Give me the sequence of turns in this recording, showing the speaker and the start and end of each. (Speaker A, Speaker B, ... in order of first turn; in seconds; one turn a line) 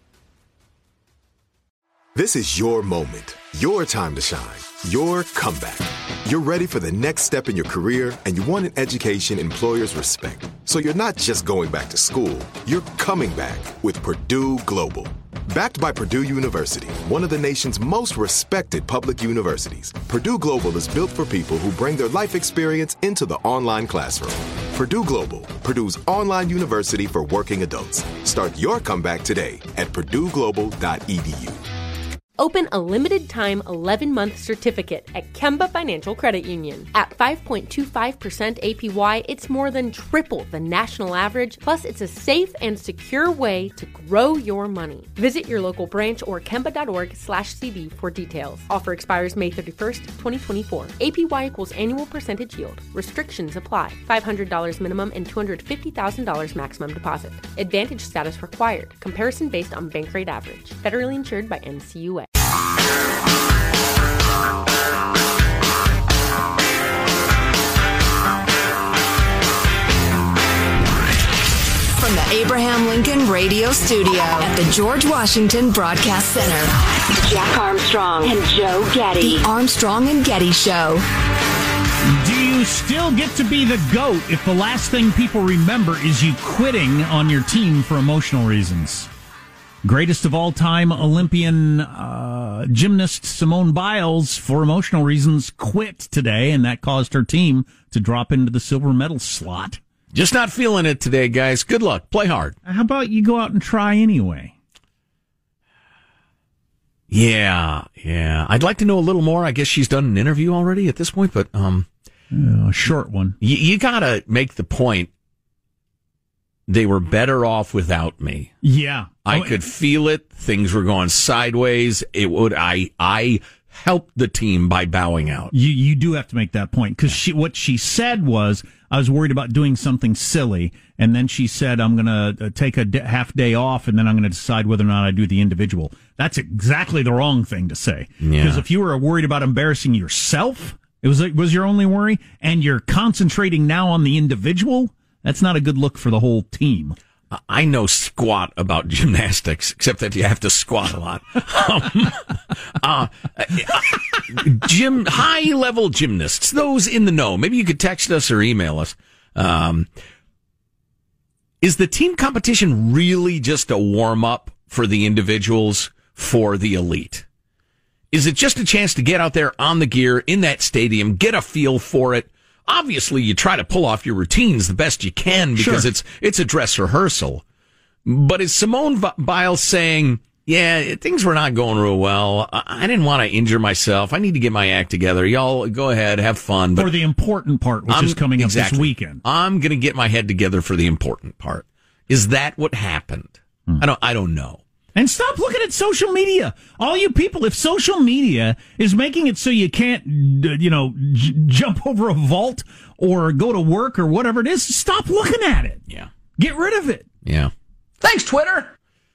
Speaker A: 2.1-31.6
Speaker B: 32.4-62.3
Speaker C: 72.0-76.7
Speaker D: 77.2-79.4
Speaker C: 78.2-81.0
Speaker E: 82.1-89.1
Speaker E: 89.8-99.8
Speaker F: 100.1-102.6
Speaker E: 102.7-104.5
Speaker F: 107.1-111.9
Speaker E: 112.3-113.4
Speaker F: 113.4-115.1
Speaker F: 116.7-118.5
Speaker E: 118.6-119.6
Speaker F: 119.3-125.5
Speaker E: 125.5-147.0
Speaker F: 138.2-138.6
Speaker F: 147.3-159.9
Speaker F: 161.6-167.2
Speaker F: 168.1-177.4
Speaker E: 175.6-175.9
Speaker F: 178.1-186.9
Speaker E: 186.8-189.2
Speaker F: 187.9-194.6
Speaker E: 194.9-205.8
Speaker E: 206.4-207.1
Speaker F: 207.2-207.5
Speaker E: 208.1-208.6